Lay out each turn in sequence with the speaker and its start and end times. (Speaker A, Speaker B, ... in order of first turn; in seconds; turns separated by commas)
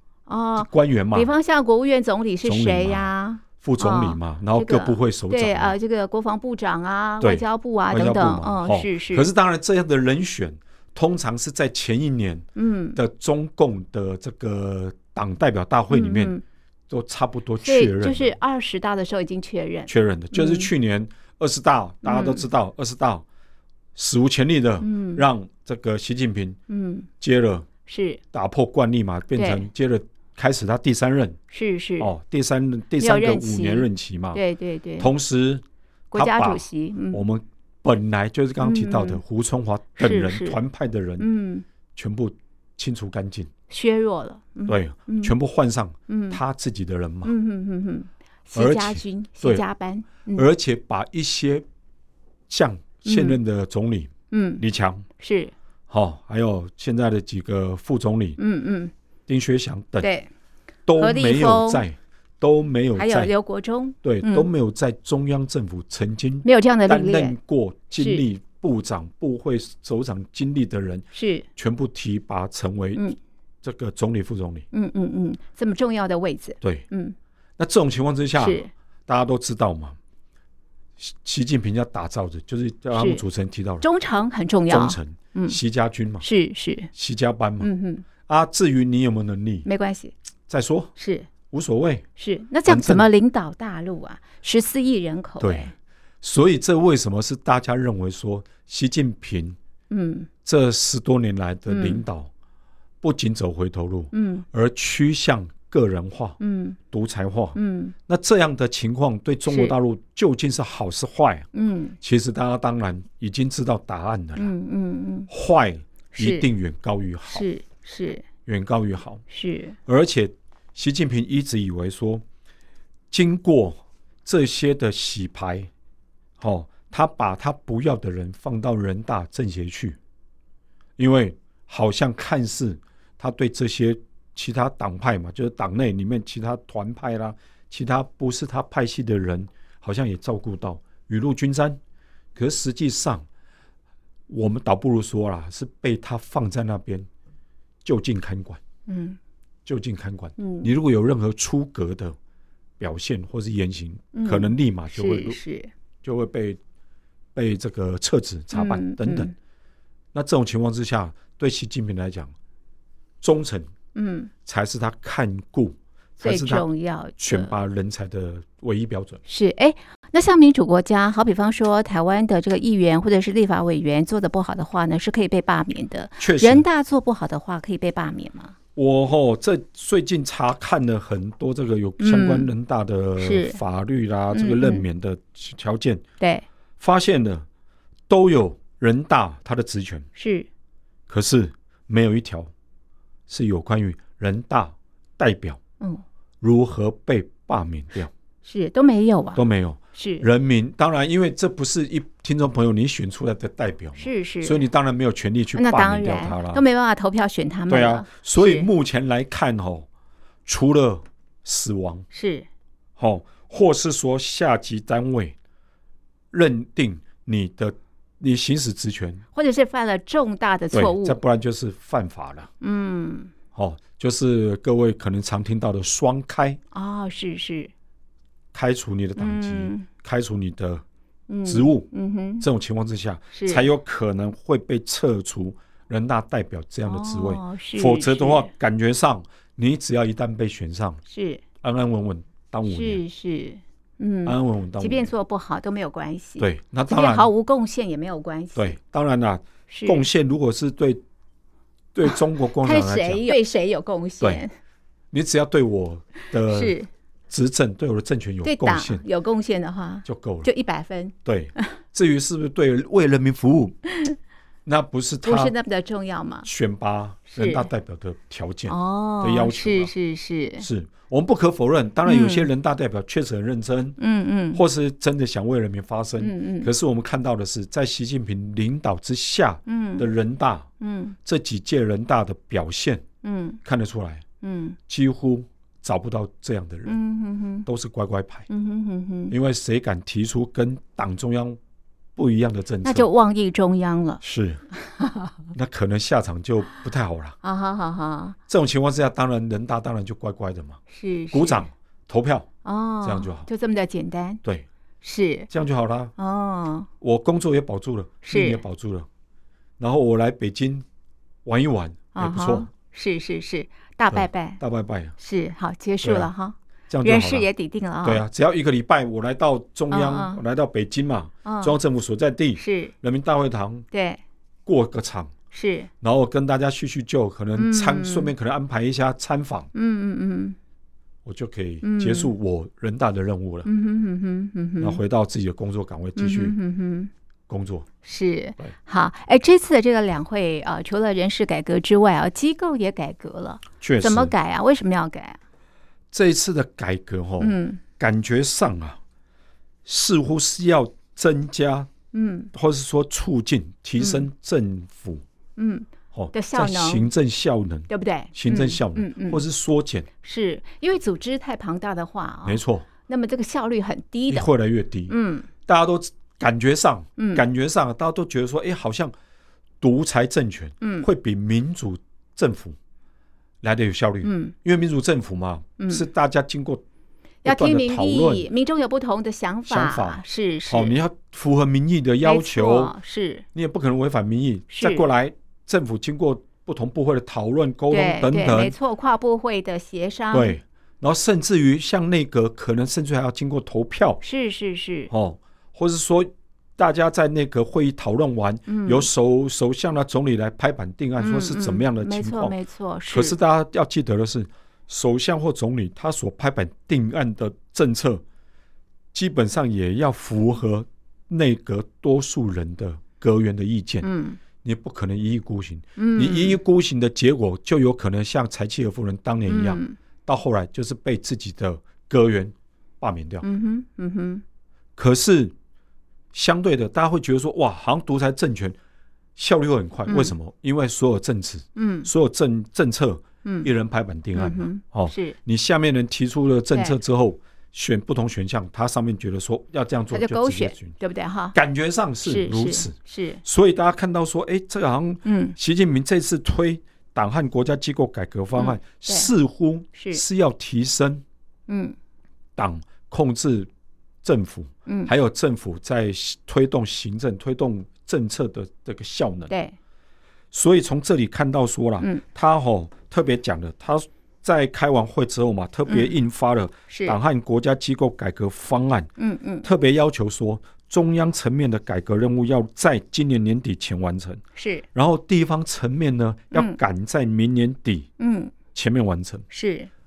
Speaker A: 0.3-9.3, Speaker B: 0.6-1.3, Speaker B: 2.4-5.8, Speaker B: 7.2-16.4, Speaker A: 12.6-13.0, Speaker A: 15.9-16.4, Speaker B: 16.9-18.4, Speaker A: 17.6-20.7, Speaker B: 19.9-23.2, Speaker A: 22.0-22.5, Speaker B: 23.9-26.6, Speaker A: 24.8-25.2, Speaker A: 26.7-27.1, Speaker B: 27.2-27.7, Speaker A: 27.9-28.2, Speaker B: 28.3-31.4, Speaker A: 29.4-29.7, Speaker A: 31.5-32.1, Speaker B: 32.0-34.4, Speaker A: 33.0-35.1, Speaker B: 35.0-41.3, Speaker A: 36.1-37.2, Speaker A: 38.6-39.2, Speaker A: 40.0-40.6, Speaker A: 41.2-41.6, Speaker B: 42.0-43.5, Speaker A: 43.7-45.3, Speaker B: 44.7-47.3, Speaker A: 46.1-46.4, Speaker A: 47.2-50.5, Speaker B: 48.5-49.6, Speaker B: 50.3-51.6, Speaker B: 52.5-55.0, Speaker A: 53.0-53.4, Speaker A: 54.3-54.6, Speaker A: 55.2-55.5, Speaker B: 55.9-58.4, Speaker A: 58.4-58.9, Speaker B: 59.3-60.1, Speaker A: 60.0-60.3, Speaker B: 60.9-63.3, Speaker A: 61.0-61.8, Speaker A: 63.0-64.5, Speaker B: 64.0-73.0, Speaker A: 66.5-67.4, Speaker A: 68.0-68.2, Speaker A: 71.1-71.5, Speaker B: 73.6-74.7, Speaker A: 74.7-77.2, Speaker B: 77.6-80.0, Speaker A: 78.4-78.7, Speaker B: 81.0-83.9, Speaker A: 83.0-83.2, Speaker A: 83.8-85.6, Speaker B: 84.7-86.3, Speaker A: 86.2-86.9, Speaker B: 86.9-87.7, Speaker A: 87.6-88.0, Speaker B: 88.3-89.7, Speaker A: 89.7-90.1, Speaker B: 90.5-90.9, Speaker A: 91.0-91.3, Speaker B: 91.5-92.0, Speaker A: 92.2-95.7, Speaker B: 92.7-93.1, Speaker B: 95.4-99.6, Speaker A: 99.9-100.3, Speaker B: 100.5-102.3, Speaker A: 101.7-102.0, Speaker B: 103.0-106.4, Speaker A: 104.1-104.5, Speaker A: 106.4-106.8, Speaker B: 106.9-111.5, Speaker A: 107.5-107.9, Speaker A: 109.5-109.7, Speaker A: 111.5-112.0, Speaker B: 112.0-114.5, Speaker A: 114.4-115.3, Speaker B: 115.3-117.5, Speaker A: 116.1-116.5, Speaker A: 117.3-118.2, Speaker B: 118.5-119.2, Speaker A: 119.3-119.8, Speaker B: 119.9-122.2, Speaker B: 123.1-125.7, Speaker B: 126.4-130.0, Speaker B: 131.0-141.8, Speaker B: 142.3-143.2, Speaker B: 144.3-147.1, Speaker B: 147.8-148.6, Speaker A: 148.9-149.2, Speaker B: 149.7-152.2, Speaker A: 150.4-150.7, Speaker B: 152.8-155.4, Speaker A: 154.1-155.7, Speaker B: 156.0-156.6, Speaker B: 157.3-159.3, Speaker A: 158.5-159.3, Speaker B: 160.1-162.3, Speaker B: 163.2-163.7, Speaker A: 163.9-164.3, Speaker B: 164.5-166.7, Speaker A: 166.2-167.5, Speaker B: 167.2-169.2, Speaker A: 169.3-178.5, Speaker B: 176.2-176.7, Speaker B: 178.8-186.0, Speaker A: 182.0-182.5, Speaker A: 183.2-183.6, Speaker A: 184.3-184.8, Speaker A: 186.2-186.4, Speaker B: 186.8-187.5, Speaker B: 188.1-190.1, Speaker A: 190.2-190.5, Speaker B: 191.1-192.5, Speaker B: 193.3-195.6, Speaker B: 196.4-198.1, Speaker A: 198.4-199.4, Speaker B: 199.4-206.6, Speaker A: 200.0-200.3, Speaker A: 204.0-204.7, Speaker A: 205.6-208.7, Speaker B: 207.7-209.9, Speaker B: 210.5-212.1, Speaker A: 212.1-212.5, Speaker B: 213.0-215.3, Speaker B: 216.3-219.2, Speaker A: 219.3-221.2, Speaker B: 220.7-222.5, Speaker A: 222.6-223.3, Speaker B: 223.5-226.6, Speaker A: 226.7-227.7, Speaker B: 228.5-230.8, Speaker A: 229.2-229.9, Speaker A: 231.3-232.4, Speaker B: 231.4-231.9, Speaker B: 232.4-241.0, Speaker A: 233.3-233.7, Speaker A: 236.9-238.5, Speaker A: 241.1-241.4, Speaker B: 241.6-243.0, Speaker A: 242.7-248.8, Speaker B: 244.2-245.1, Speaker B: 246.4-247.3, Speaker B: 248.6-251.0, Speaker A: 249.7-250.1, Speaker B: 251.9-253.3, Speaker A: 252.1-254.5, Speaker B: 255.1-256.8, Speaker A: 256.5-256.9, Speaker B: 257.3-259.0, Speaker A: 258.4-261.7, Speaker B: 260.1-260.5, Speaker B: 261.2-263.8, Speaker B: 264.7-265.6, Speaker A: 265.2-266.5, Speaker B: 266.4-269.9, Speaker A: 267.3-267.7, Speaker A: 268.7-270.7, Speaker B: 270.6-274.0, Speaker A: 272.1-272.5, Speaker A: 274.0-274.6, Speaker B: 274.5-280.7, Speaker A: 276.2-276.7, Speaker A: 279.7-280.1, Speaker A: 280.8-281.2, Speaker B: 281.2-283.1, Speaker A: 283.2-283.6, Speaker B: 283.6-284.2, Speaker A: 284.4-284.8, Speaker B: 284.9-287.0, Speaker A: 286.9-287.7, Speaker B: 287.7-288.5, Speaker A: 288.5-289.4, Speaker B: 289.3-291.6, Speaker B: 292.2-293.1, Speaker A: 292.8-294.2, Speaker B: 294.2-294.6, Speaker A: 294.8-295.4, Speaker B: 295.5-297.4, Speaker A: 297.4-298.4, Speaker B: 298.5-300.8, Speaker A: 300.9-301.7, Speaker B: 301.3-302.5, Speaker A: 302.6-304.4, Speaker B: 303.0-303.5, Speaker A: 305.0-305.5, Speaker B: 305.5-306.1, Speaker A: 306.2-306.9, Speaker B: 307.0-309.1, Speaker A: 308.2-308.6, Speaker B: 309.8-310.9, Speaker B: 311.4-312.7, Speaker A: 312.1-314.6, Speaker B: 314.1-315.1, Speaker A: 315.2-318.2, Speaker B: 316.0-316.3, Speaker B: 316.9-317.5, Speaker B: 318.0-323.9, Speaker A: 319.9-320.4, Speaker A: 321.4-321.8, Speaker A: 322.6-322.9, Speaker A: 323.9-324.2, Speaker B: 324.7-325.3, Speaker A: 325.5-325.9, Speaker B: 326.0-329.7, Speaker A: 327.6-328.3, Speaker A: 329.7-330.6, Speaker B: 331.2-333.7, Speaker A: 331.8-332.3, Speaker A: 333.6-335.0, Speaker B: 334.8-336.6, Speaker A: 336.2-337.1, Speaker B: 337.5-337.9, Speaker A: 338.0-345.4, Speaker B: 343.8-344.3, Speaker B: 346.1-349.0, Speaker A: 347.4-347.8, Speaker B: 349.9-351.9, Speaker A: 352.1-352.5, Speaker B: 352.5-355.2, Speaker A: 354.0-354.3, Speaker A: 355.6-357.1, Speaker B: 356.1-360.1, Speaker A: 357.9-359.4, Speaker A: 360.2-364.5, Speaker B: 362.4-362.9, Speaker B: 364.3-365.1, Speaker A: 365.1-365.5, Speaker B: 365.7-369.1, Speaker A: 367.2-367.4, Speaker B: 369.8-372.8, Speaker A: 370.8-371.1, Speaker B: 373.6-376.8, Speaker A: 374.2-374.5, Speaker A: 375.8-376.1, Speaker B: 377.4-378.5, Speaker A: 377.4-381.0, Speaker B: 379.7-382.9, Speaker A: 382.2-383.4, Speaker B: 383.5-388.8, Speaker A: 384.7-385.1, Speaker A: 387.9-390.6, Speaker B: 390.3-394.2, Speaker A: 394.2-395.1, Speaker B: 395.1-402.6, Speaker A: 398.7-399.1, Speaker A: 401.2-403.4, Speaker B: 403.1-408.2, Speaker B: 409.1-414.1, Speaker A: 414.0-414.4, Speaker B: 414.6-423.5, Speaker A: 416.0-416.6, Speaker A: 419.5-420.0, Speaker A: 423.4-424.4, Speaker B: 425.0-425.5, Speaker B: 426.3-428.8, Speaker B: 429.4-441.0, Speaker A: 430.1-430.3, Speaker A: 431.8-432.1, Speaker A: 434.4-435.4, Speaker A: 440.1-441.6, Speaker B: 441.5-451.2, Speaker A: 442.2-443.4, Speaker A: 445.2-445.6, Speaker A: 448.6-449.3, Speaker A: 449.9-450.2, Speaker A: 451.7-452.0, Speaker B: 452.6-453.7, Speaker B: 454.2-459.5, Speaker A: 454.9-455.1, Speaker A: 459.5-459.8, Speaker B: 460.5-469.1, Speaker A: 465.9-466.1, Speaker A: 466.9-467.2, Speaker A: 469.2-469.7, Speaker B: 469.6-474.4, Speaker A: 474.6-474.9, Speaker B: 474.9-478.1, Speaker A: 476.5-476.8, Speaker A: 478.2-478.5, Speaker B: 478.7-479.4, Speaker A: 479.5-479.9